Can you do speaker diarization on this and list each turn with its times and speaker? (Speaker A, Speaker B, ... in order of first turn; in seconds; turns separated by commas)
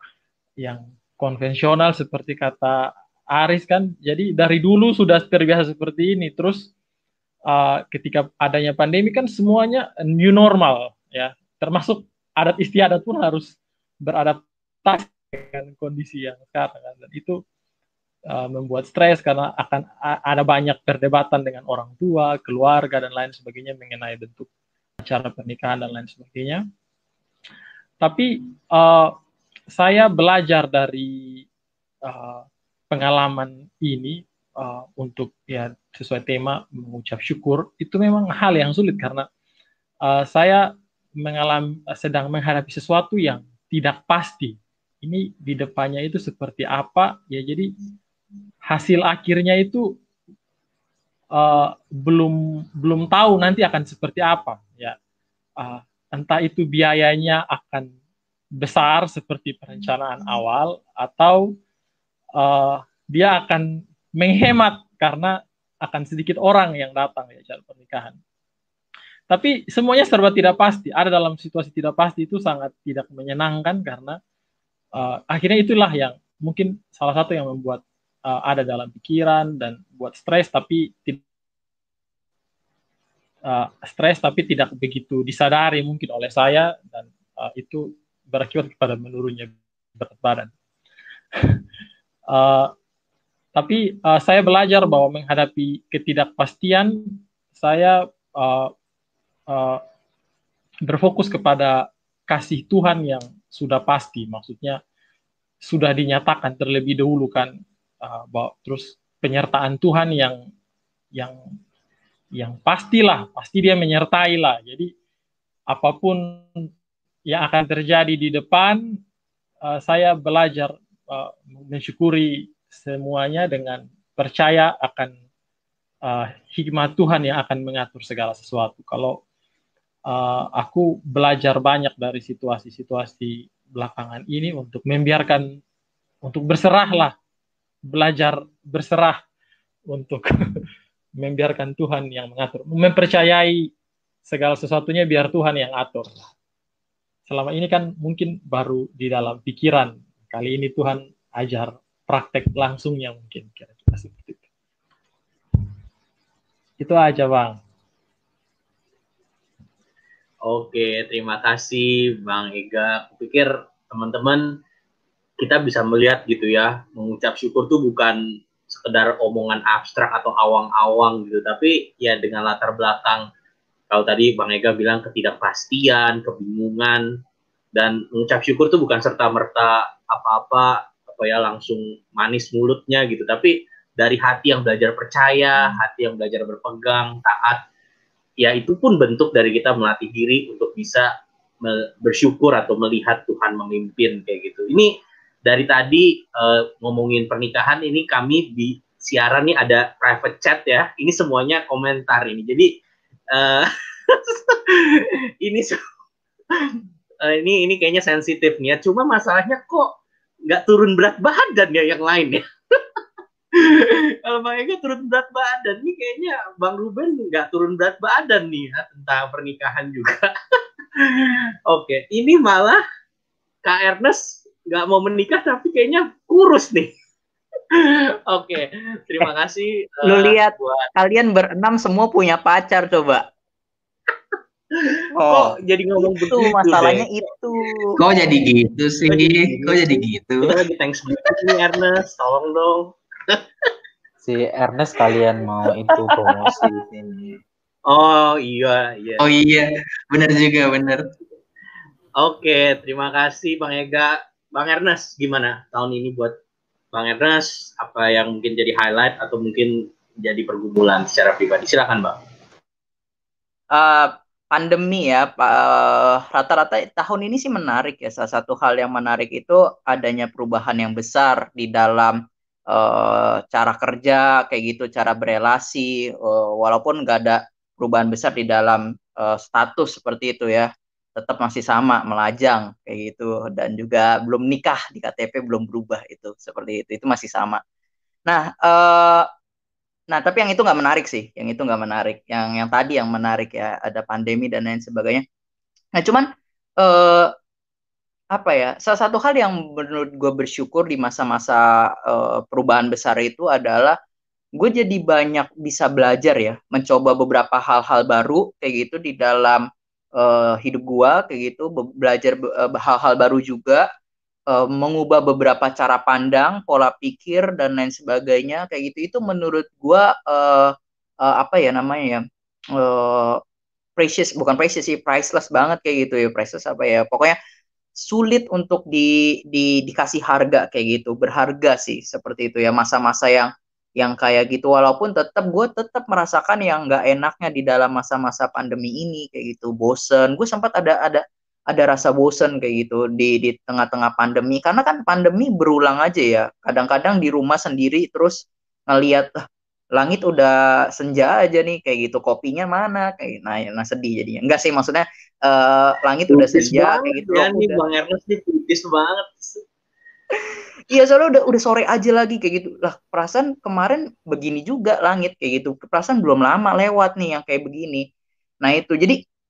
Speaker A: 0.6-6.7, Speaker A: 7.5-17.4, Speaker A: 18.3-24.5, Speaker A: 25.0-26.6, Speaker A: 28.0-29.1, Speaker A: 29.7-31.4, Speaker A: 32.0-39.3, Speaker A: 40.0-47.7, Speaker A: 48.7-50.0, Speaker A: 51.3-55.0, Speaker A: 55.6-57.9, Speaker A: 58.6-61.5, Speaker A: 62.4-68.2, Speaker A: 69.3-74.2, Speaker A: 75.0-81.2, Speaker A: 83.5-90.5, Speaker A: 92.3-92.7, Speaker A: 93.5-98.7, Speaker A: 99.5-99.8, Speaker A: 100.8-104.8, Speaker A: 105.6-110.4, Speaker A: 112.4-114.9, Speaker A: 115.7-116.5, Speaker A: 117.3-119.0, Speaker A: 119.6-125.1, Speaker A: 126.0-129.2, Speaker A: 130.1-135.4, Speaker A: 136.2-137.1, Speaker A: 137.9-139.2, Speaker A: 139.9-140.3, Speaker A: 141.2-143.7, Speaker A: 144.2-146.2, Speaker A: 147.3-154.4, Speaker A: 156.8-157.6, Speaker B: 160.4-164.5, Speaker B: 165.4-173.3, Speaker B: 173.9-177.0, Speaker B: 177.7-187.6, Speaker B: 188.4-191.1, Speaker B: 191.6-194.9, Speaker B: 195.4-202.7, Speaker B: 203.3-205.8, Speaker B: 206.5-209.9, Speaker B: 210.5-212.8, Speaker B: 213.5-222.8, Speaker B: 223.6-226.9, Speaker B: 227.7-230.9, Speaker C: 230.0-233.2, Speaker B: 234.8-237.1, Speaker C: 235.1-237.8, Speaker D: 238.0-240.6, Speaker B: 239.1-243.7, Speaker E: 244.2-247.4, Speaker B: 247.9-249.2, Speaker D: 249.2-251.0, Speaker B: 252.2-256.3, Speaker B: 256.9-262.2, Speaker C: 263.7-272.1, Speaker C: 272.7-287.6, Speaker C: 288.3-289.3, Speaker C: 290.1-295.2, Speaker C: 296.0-296.2, Speaker C: 296.8-297.3, Speaker C: 298.3-303.9, Speaker C: 304.6-309.6, Speaker C: 310.2-313.8, Speaker C: 314.5-320.7, Speaker C: 321.2-322.2, Speaker C: 322.8-323.4, Speaker C: 324.0-327.4, Speaker C: 328.1-349.3, Speaker C: 350.0-357.8, Speaker B: 356.3-359.6, Speaker C: 360.9-368.1, Speaker C: 368.6-369.2